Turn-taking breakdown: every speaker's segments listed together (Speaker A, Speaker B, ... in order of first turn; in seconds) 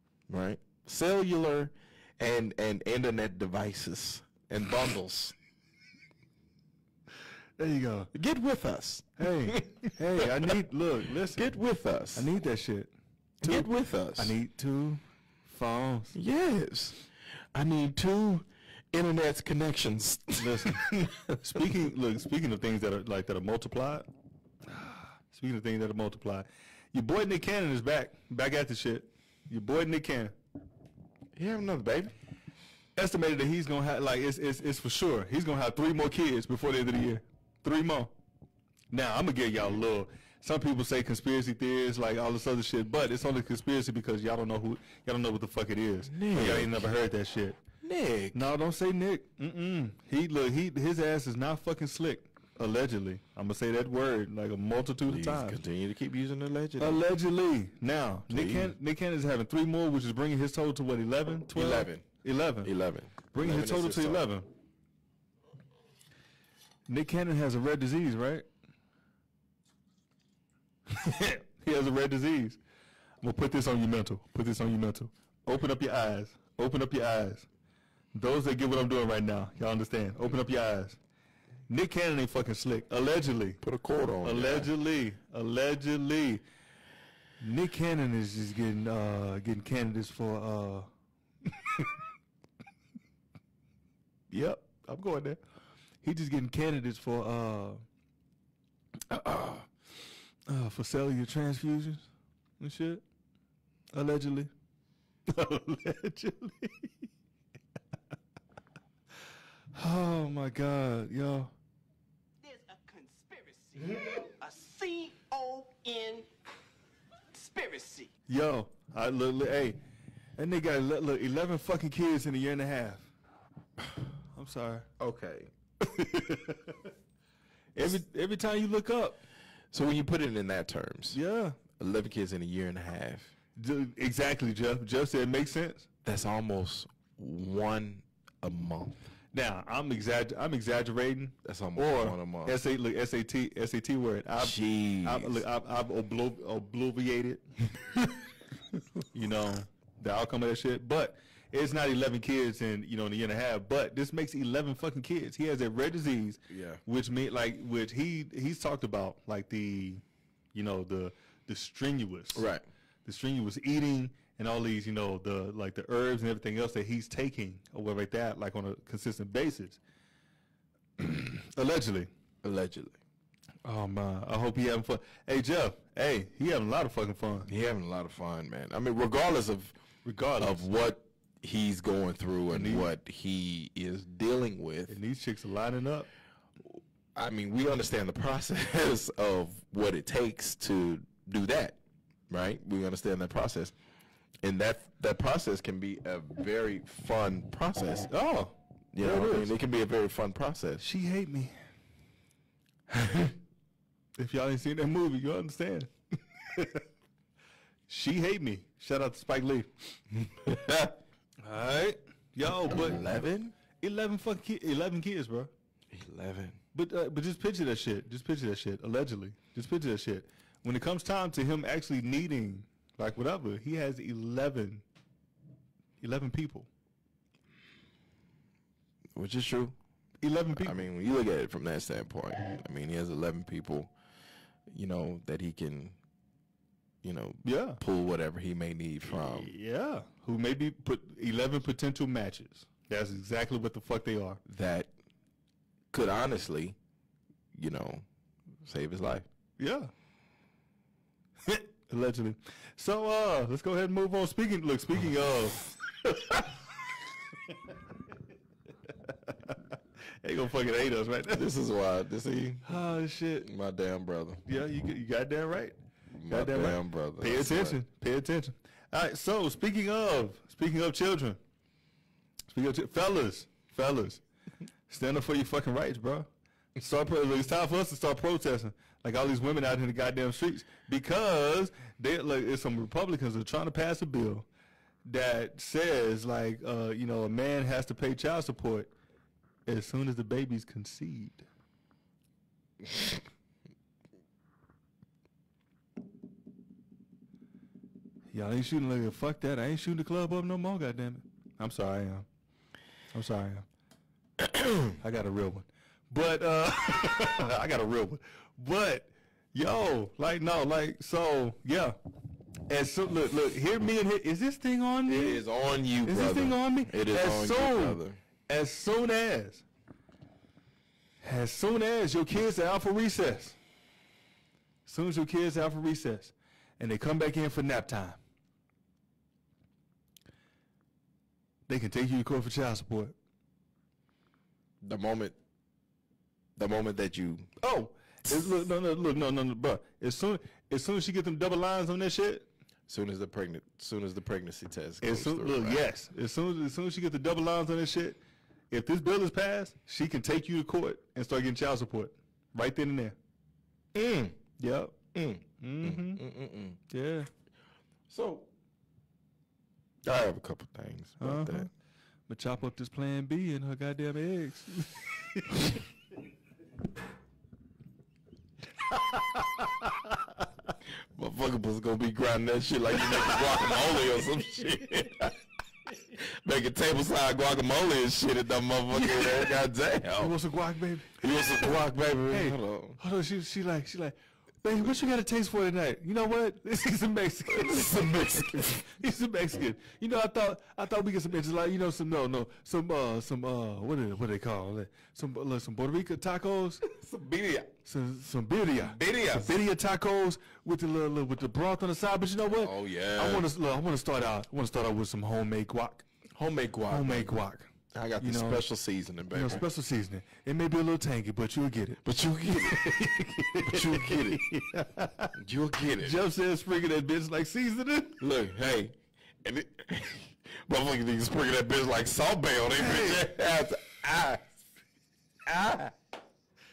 Speaker A: 0.3-5.3, 8.1-10.6, 11.3-12.3, 13.4-14.3, 16.1-17.0, 17.5-21.4, 31.3-32.1, 46.1-46.9, 47.8-48.5, 55.0-57.0, 58.3-58.7, 61.5-62.1, 62.6-64.3, 83.6-84.7, 125.0-125.5, 129.7-131.2, 131.8-133.3, 136.0-139.0, 141.4-142.6, 144.4-145.4, 156.5-156.8, 162.3-162.6, 172.4-173.0, 177.5-179.7, 180.4-184.9, 187.2-191.8, 192.3-193.7, 194.4-198.1, 198.9-200.8, 202.9-203.3, 210.1-211.0, 212.7-213.5, 215.9-216.6, 229.2-229.8, 230.6-233.9, 234.7-235.9, 237.0-239.5, 244.4-244.9, 245.9-246.8, 247.5-248.0, 248.6-249.2, 261.3-262.7, 263.4-264.4, 266.2-267.8, 304.4-304.9, 315.1-318.2, 334.8-335.4, 336.6-337.5, 342.9-345.8, 353.9-354.4, 355.1-356.8, 358.1-358.5, 360.0-361.7, 371.1-375.4, 375.9-380.3, 381.2-383.0, 387.5-388.9, 396.8-397.7, 398.8-399.5, 402.5-403.5, 406.3-407.4, 407.9-409.6, 412.0-414.5, 415.4-416.2, 418.2-424.5, 425.4-425.9
Speaker B: 7.6-8.1, 9.2-11.5, 12.1-16.1, 20.4-24.1, 24.8-30.3, 33.0-38.1, 38.9-47.6, 48.3-55.6, 56.8-62.7, 63.3-64.5, 66.9-68.5, 70.9-72.6, 73.2-77.5, 78.1-81.0, 81.7-83.6, 84.2-86.4, 87.4-90.9, 91.6-91.9, 94.3-95.4, 96.0-97.8, 99.1-99.6, 100.5-102.0, 102.6-103.0, 103.9-104.5, 105.3-107.1, 109.7-111.5, 118.3-119.8, 120.4-123.1, 124.3-124.9, 125.8-126.8, 127.7-129.2, 131.1-131.6, 133.6-135.9, 139.3-147.4, 149.1-160.0, 160.5-162.5, 163.0-169.8, 171.0-172.1, 173.6-177.5, 180.0-180.7, 182.5-182.9, 184.9-186.1, 198.1-199.5, 200.8-201.6, 204.2-205.9, 206.5-206.8, 207.9-209.7, 211.4-213.0, 213.8-215.5, 216.7-224.8, 226.0-226.7, 230.2-230.8, 237.4-237.8, 239.1-244.4, 249.6-249.9, 251.4-255.7, 260.2-261.5, 262.6-263.5, 264.4-265.7, 266.3-271.4, 272.5-274.2, 274.9-284.4, 285.0-288.9, 289.6-291.4, 298.3-302.2, 303.1-303.6, 305.0-311.9, 312.7-315.4, 316.0-319.6, 321.2-323.6, 324.9-328.2, 331.7-333.1, 337.6-342.5, 345.0-348.2, 348.7-353.1, 354.6-355.0, 355.6-356.2, 356.9-357.3, 361.2-361.7, 362.3-365.4, 378.9-379.5, 380.1-381.1, 382.3-396.8, 397.8-406.0, 406.9-408.6, 409.3-412.0, 412.7-415.3, 416.0-418.2, 422.8-423.3
Speaker C: 112.4-116.3, 117.3-118.1